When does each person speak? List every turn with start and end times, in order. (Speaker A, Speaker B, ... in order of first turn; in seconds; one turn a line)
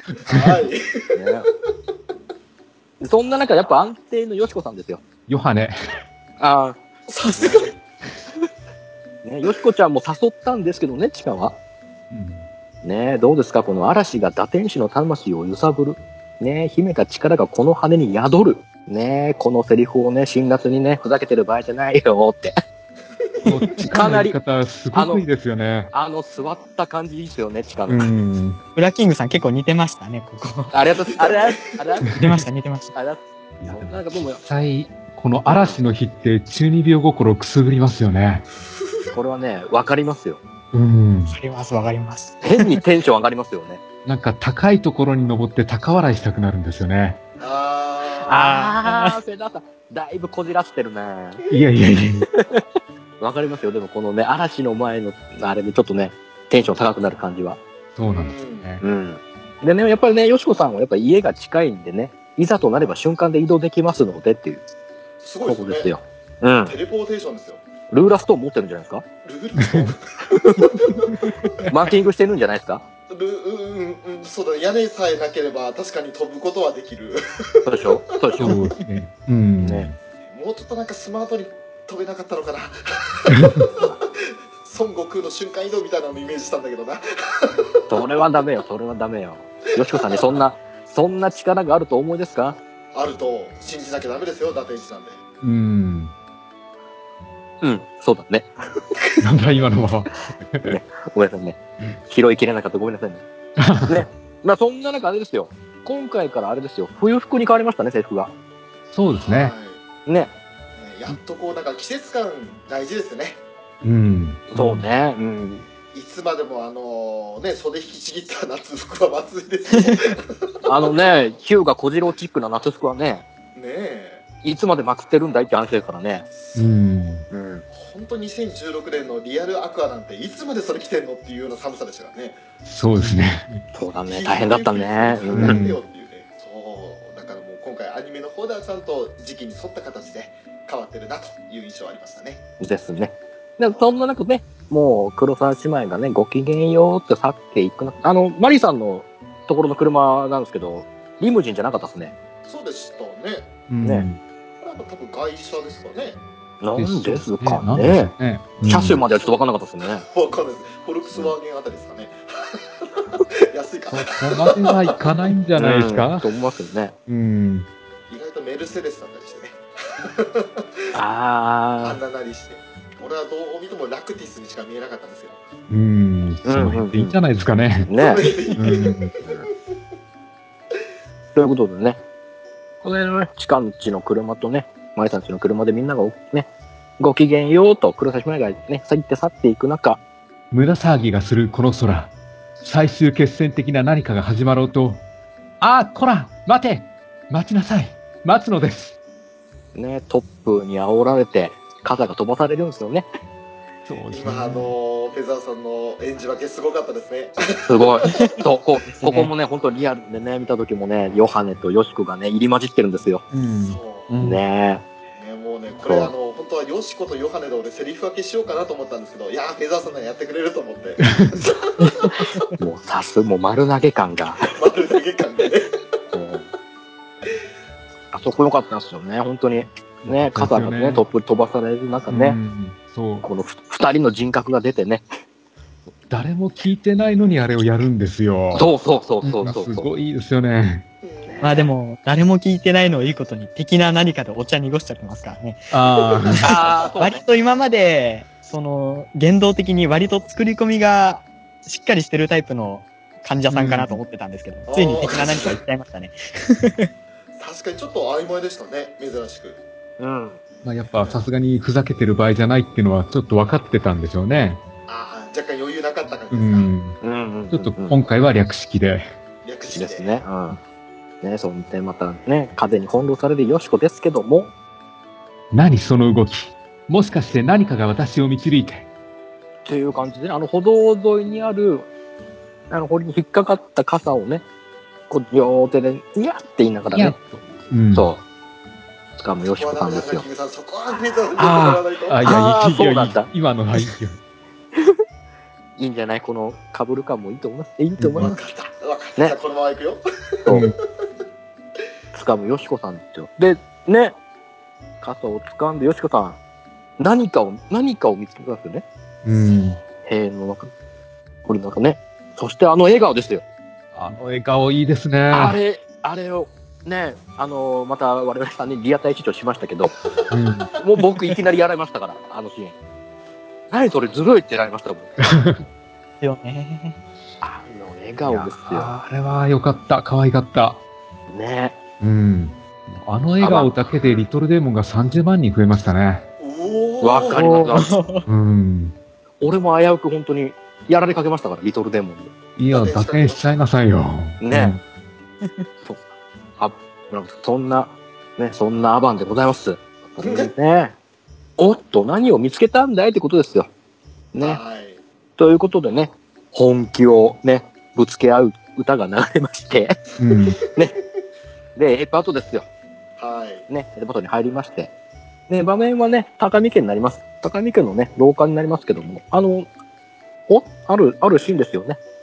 Speaker A: 0.2-1.1
Speaker B: 0.2-0.6
Speaker C: 1.1-1.5
Speaker C: 3.0-5.0
Speaker B: 5.3-5.7
Speaker C: 6.4-6.8
Speaker A: 7.1-7.7
Speaker C: 7.3-7.7
Speaker C: 9.2-11.6
Speaker B: 12.1-12.4
Speaker C: 12.8-22.5
Speaker A: 23.2-23.6
Speaker B: 23.4-25.9
Speaker C: 23.8-24.4
Speaker C: 24.9-25.2
Speaker C: 25.9-28.1
Speaker B: 27.9-28.6
Speaker D: 28.7-30.7
Speaker C: 30.7-32.1
Speaker A: 31.1-31.8
Speaker B: 32.0-32.5
Speaker D: 32.0-32.9
Speaker C: 32.9-34.4
Speaker B: 33.6-38.4
Speaker C: 35.5-35.8
Speaker A: 38.8-39.1
Speaker C: 39.1-40.4
Speaker B: 40.7-41.4
Speaker D: 41.3-42.8
Speaker C: 42.4-43.8
Speaker B: 44.0-47.2
Speaker A: 47.4-48.4
Speaker C: 48.3-51.4
Speaker D: 48.3-49.1
Speaker B: 51.5-52.3
Speaker C: 53.2-57.6
Speaker B: 58.0-58.8
Speaker A: 58.1-58.7
Speaker C: 58.8-64.6
Speaker A: 65.2-66.0
Speaker C: 65.4-66.8
Speaker A: 66.6-67.6
Speaker C: 67.9-69.0
Speaker A: 69.2-71.7
Speaker B: 69.6-69.9
Speaker C: 70.3-70.8
Speaker C: 71.7-72.8
Speaker A: 73.1-78.5
Speaker C: 77.6-78.6
Speaker B: 78.4-80.0
Speaker C: 79.6-79.9
Speaker A: 80.2-88.0
Speaker C: 87.9-92.6
Speaker A: 89.8-90.3
Speaker A: 92.9-95.2
Speaker B: 95.4-96.1
Speaker C: 97.6-98.5
Speaker B: 99.2-100.8
Speaker C: 100.7-103.2
Speaker B: 103.6-104.0
Speaker C: 103.8-108.3
Speaker B: 108.9-109.5
Speaker A: 109.1-109.8
Speaker C: 110.0-110.3
Speaker A: 110.8-113.4
Speaker B: 113.8-114.8
Speaker C: 114.5-115.7
Speaker A: 115.9-120.9
Speaker C: 120.6-123.2
Speaker A: 123.5-124.2
Speaker C: 124.4-126.2
Speaker B: 126.5-127.2
Speaker C: 127.3-127.6
Speaker A: 127.7-132.4
Speaker B: 132.6-133.6
Speaker C: 133.7-135.6
Speaker A: 134.1-142.4
Speaker B: 135.3-135.8
Speaker C: 142.6-152.1
Speaker A: 152.4-153.5
Speaker B: 153.7-154.2
Speaker A: 154.6-156.2
Speaker C: 156.6-158.1
Speaker B: 156.8-159.0
Speaker C: 158.6-160.0
Speaker A: 159.1-159.4
Speaker A: 160.0-165.0
Speaker B: 163.9-166.3
Speaker C: 165.6-166.9
Speaker B: 167.1-167.7
Speaker A: 168.1-170.7
Speaker C: 170.9-172.0
Speaker A: 171.8-175.4
Speaker B: 175.7-177.9
Speaker C: 176.4-177.2
Speaker C: 177.8-178.3
Speaker A: 178.0-179.4
Speaker B: 178.6-179.1
Speaker C: 181.3-182.0
Speaker C: 182.8-186.5
Speaker C: 187.0-190.0
Speaker B: 190.5-195.0
Speaker B: 195.6-198.9
Speaker C: 199.7-203.1
Speaker B: 203.9-204.8
Speaker A: 204.1-207.9
Speaker C: 207.7-213.2
Speaker B: 213.3-214.4
Speaker A: 213.6-214.1
Speaker C: 214.2-214.8
Speaker A: 215.1-222.1
Speaker C: 215.8-216.1
Speaker B: 221.1-221.4
Speaker C: 222.6-224.4
Speaker A: 224.4-225.8
Speaker C: 226.1-226.5
Speaker C: 228.1-232.4
Speaker B: 230.1-231.0
Speaker B: 232.1-233.3
Speaker C: 233.2-235.0
Speaker B: 236.1-238.7
Speaker C: 238.5-239.9
Speaker B: 239.2-240.8
Speaker A: 241.0-241.6
Speaker C: 241.2-241.7
Speaker D: 241.4-245.7
Speaker B: 245.7-246.4
Speaker D: 246.3-256.9
Speaker C: 246.4-247.2
Speaker B: 253.5-254.0
Speaker A: 254.7-255.6
Speaker A: 257.4-259.6
Speaker C: 260.0-260.4
Speaker B: 260.6-264.6
Speaker A: 260.9-261.2
Speaker A: 264.9-266.7
Speaker B: 266.3-267.0
Speaker C: 267.0-268.0
Speaker B: 267.5-269.1
Speaker A: 269.4-270.2
Speaker C: 269.7-270.6
Speaker C: 271.2-274.5
Speaker B: 275.5-278.9
Speaker C: 279.6-281.9
Speaker C: 282.7-284.4
Speaker C: 285.1-287.1
Speaker B: 286.9-288.1
Speaker C: 287.9-288.2
Speaker C: 289.2-290.2
Speaker A: 289.5-292.2
Speaker C: 291.4-293.3
Speaker B: 291.4-294.2
Speaker C: 294.7-295.0
Speaker C: 295.8-298.4
Speaker B: 298.0-298.3
Speaker A: 298.1-300.7
Speaker B: 300.5-300.7
Speaker C: 302.1-304.2
Speaker C: 305.0-306.4
Speaker C: 307.0-308.8
Speaker B: 309.2-309.8
Speaker A: 309.4-309.7
Speaker C: 310.0-310.7
Speaker C: 311.4-313.4
Speaker B: 313.9-315.6
Speaker C: 315.3-319.9
Speaker B: 320.3-320.7
Speaker C: 320.8-322.7
Speaker C: 323.7-325.4
Speaker B: 325.2-325.6
Speaker D: 326.2-326.9
Speaker C: 327.4-328.9
Speaker B: 328.2-330.8
Speaker C: 331.3-331.8
Speaker B: 332.0-336.2
Speaker C: 333.4-333.7
Speaker A: 336.4-337.6
Speaker C: 337.0-337.9
Speaker D: 337.3-338.2
Speaker B: 338.2-338.9
Speaker C: 339.4-342.3
Speaker B: 342.6-344.8
Speaker A: 342.6-343.5
Speaker C: 344.4-344.8
Speaker C: 346.6-350.9
Speaker A: 350.2-350.5
Speaker C: 351.6-353.7
Speaker C: 354.3-354.6
Speaker A: 354.4-355.0
Speaker C: 355.4-360.0
Speaker B: 360.2-360.6
Speaker C: 361.8-362.7
Speaker A: 363.2-363.7
Speaker C: 363.7-364.9
Speaker C: 365.5-369.7
Speaker C: 370.5-372.0